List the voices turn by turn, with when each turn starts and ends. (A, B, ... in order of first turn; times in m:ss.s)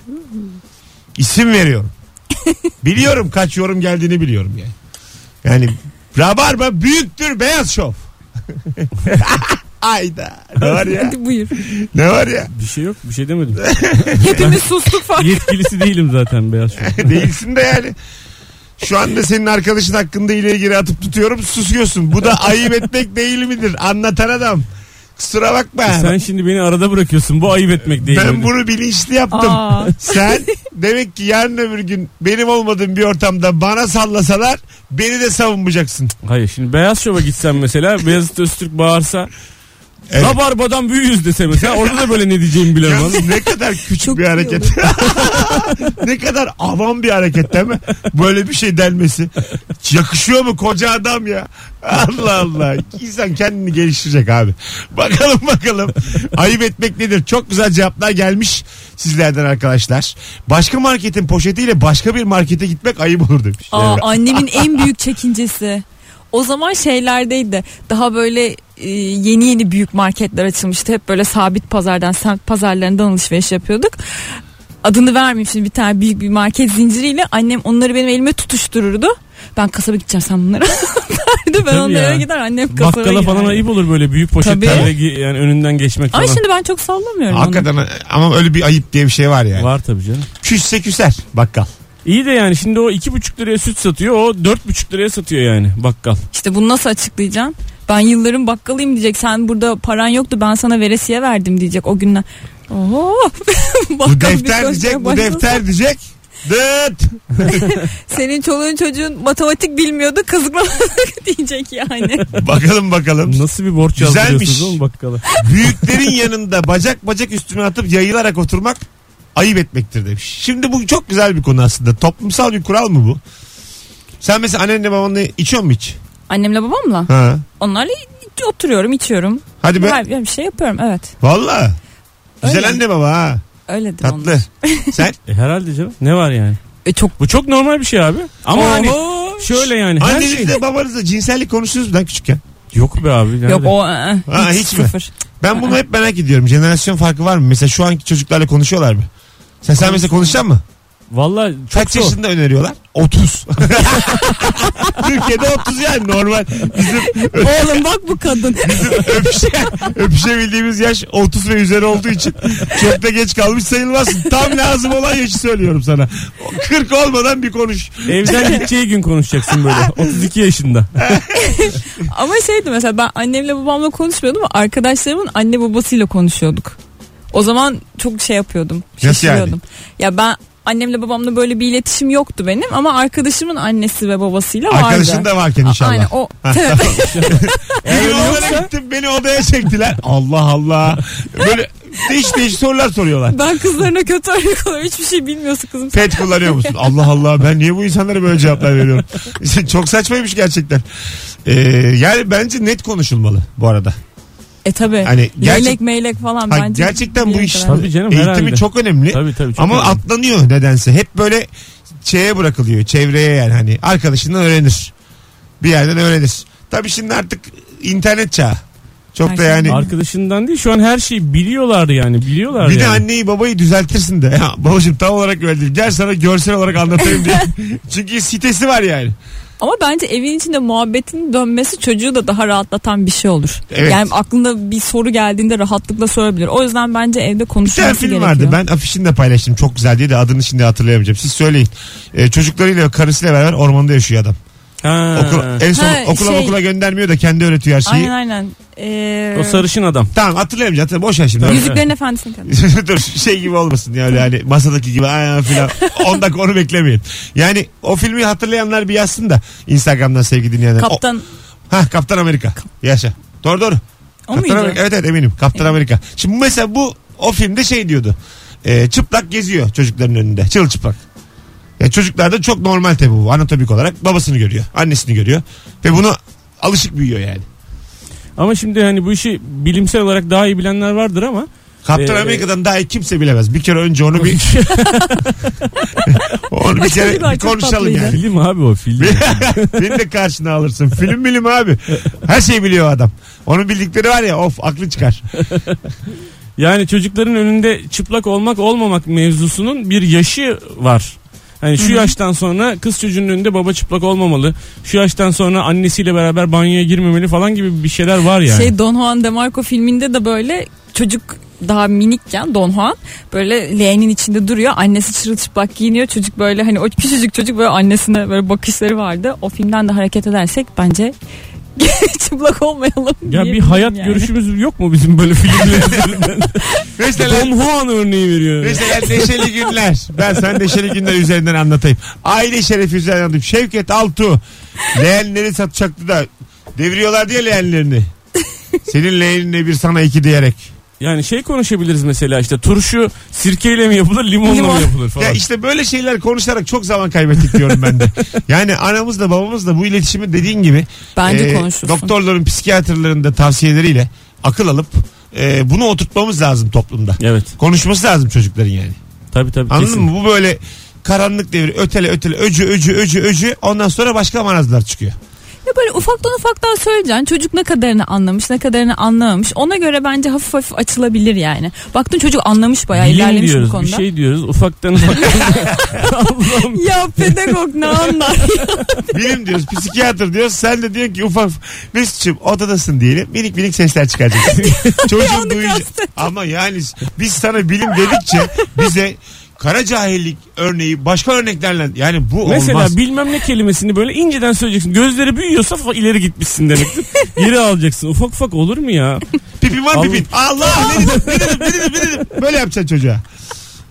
0:01.2-0:01.9 A
0:02.8-0:04.7 A
0:05.4-0:08.0 A
0:08.5-0:12.5 A
0:10.8-0:11.6 B
0:12.5-0:13.6 C
0:13.6-0:14.5 A
0:14.2-0:15.5 B
0:14.2-0:14.6 C
0:15.2-0:17.3 C
0:16.8-0:18.0 A
0:18.8-0:26.2 A
0:25.9-0:28.5 C
0:28.0-0:36.1 A
0:29.3-0:30.3 B
0:36.2-0:39.3 C
0:40.1-0:40.4 A
0:40.2-0:43.3 C
0:41.6-0:42.0 A
0:42.8-1:04.8 A
0:44.0-0:45.3 B
1:03.7-1:14.0 B
1:14.8-1:23.6 B
1:21.7-1:26.4 C
1:24.4-1:24.9 B
1:24.6-1:24.9 A
1:26.1-1:27.7 B
1:27.3-1:29.7 A
1:29.5-1:30.3 C
1:30.4-1:31.7 A
1:32.0-1:36.2 C
1:36.3-1:45.6 B
1:44.0-1:47.6 A
1:47.4-1:52.3 B
1:52.3-1:53.4 A
1:53.2-1:55.8 C
1:54.0-1:54.8 A
1:55.3-1:58.8 A
1:59.3-2:03.2 A
2:04.2-2:06.0 A
2:06.3-2:11.1 B
2:07.1-2:07.4 A
2:09.6-2:10.0 A
2:11.2-2:11.8 A
2:12.4-2:12.8 B
2:12.4-2:13.4 A
2:13.7-2:15.0 B
2:14.0-2:15.2 A
2:15.3-2:16.6 C
2:16.8-2:17.2 B
2:17.2-2:20.6 C
2:18.5-2:19.7 B
2:20.0-2:22.4 A
2:22.7-2:23.7 C
2:23.5-2:25.1 B
2:24.3-2:29.1 A
2:29.6-2:30.6 A
2:31.1-2:32.2 C
2:31.7-2:37.8 A
2:37.2-2:39.2 B
2:38.6-2:48.7 A
2:48.0-2:51.0 C
2:49.6-2:50.0 A
2:51.0-2:51.5 A
2:51.4-2:56.8 B
2:57.3-3:08.6 B
2:59.0-2:59.6 A
3:04.7-3:13.4 A
3:07.0-3:08.7 C
3:13.3-3:16.8 B
3:15.9-3:20.8 A
3:21.4-3:24.0 A
3:24.6-3:27.9 B
3:25.0-3:25.8 A
3:26.5-3:31.5 A
3:27.6-3:30.0 C
3:32.0-3:34.9 A
3:35.6-3:38.6 A
3:39.1-3:39.8 A
3:39.2-3:39.9 B
3:39.7-3:43.0 C
3:42.6-3:49.2 A
3:47.0-3:47.4 B
3:49.6-3:58.6 B
3:53.7-3:54.1 A
3:57.6-4:04.4 A
4:04.8-4:05.6 C
4:05.1-4:08.1 A
4:05.7-4:06.6 B
4:07.8-4:09.6 B
4:09.3-4:10.1 C
4:10.1-4:11.8 A
4:11.4-4:11.8 C
4:11.4-4:12.6 B
4:12.4-4:21.0 A
4:15.7-4:16.1 B
4:20.8-4:21.2 B
4:21.7-4:23.8 A
4:24.3-4:24.8 B
4:24.3-4:31.0 A
4:31.8-4:37.4 A
4:38.4-4:42.5 C
4:41.8-4:44.5 A
4:44.2-4:45.7 C
4:44.8-4:45.2 B
4:46.1-4:48.2 A
4:46.7-4:48.2 B
4:48.1-4:49.9 C
4:49.0-4:55.2 A
4:55.5-4:55.8 C
4:56.6-5:08.7 C
5:01.8-5:02.1 B
5:08.5-5:21.1 B
5:21.8-5:24.3 B
5:23.3-5:29.3 C
5:25.6-5:26.0 A
5:27.0-5:27.5 A
5:28.6-5:38.1 A
5:38.9-5:40.7 A
5:41.0-5:45.4 C
5:44.4-5:44.9 B
5:45.2-5:59.0 A
5:51.2-5:52.1 B
5:57.2-5:57.5 C
5:59.3-6:00.1 C
5:59.7-6:05.2 A
6:05.6-6:14.0 B
6:12.9-6:18.2 C
6:15.2-6:16.1 B
6:16.7-6:19.2 B
6:19.1-6:32.9 A
6:24.5-6:25.0 C
6:24.6-6:26.2 B
6:28.0-6:28.3 B
6:32.4-6:39.2 C
6:39.6-6:43.2 A
6:39.9-6:42.1 C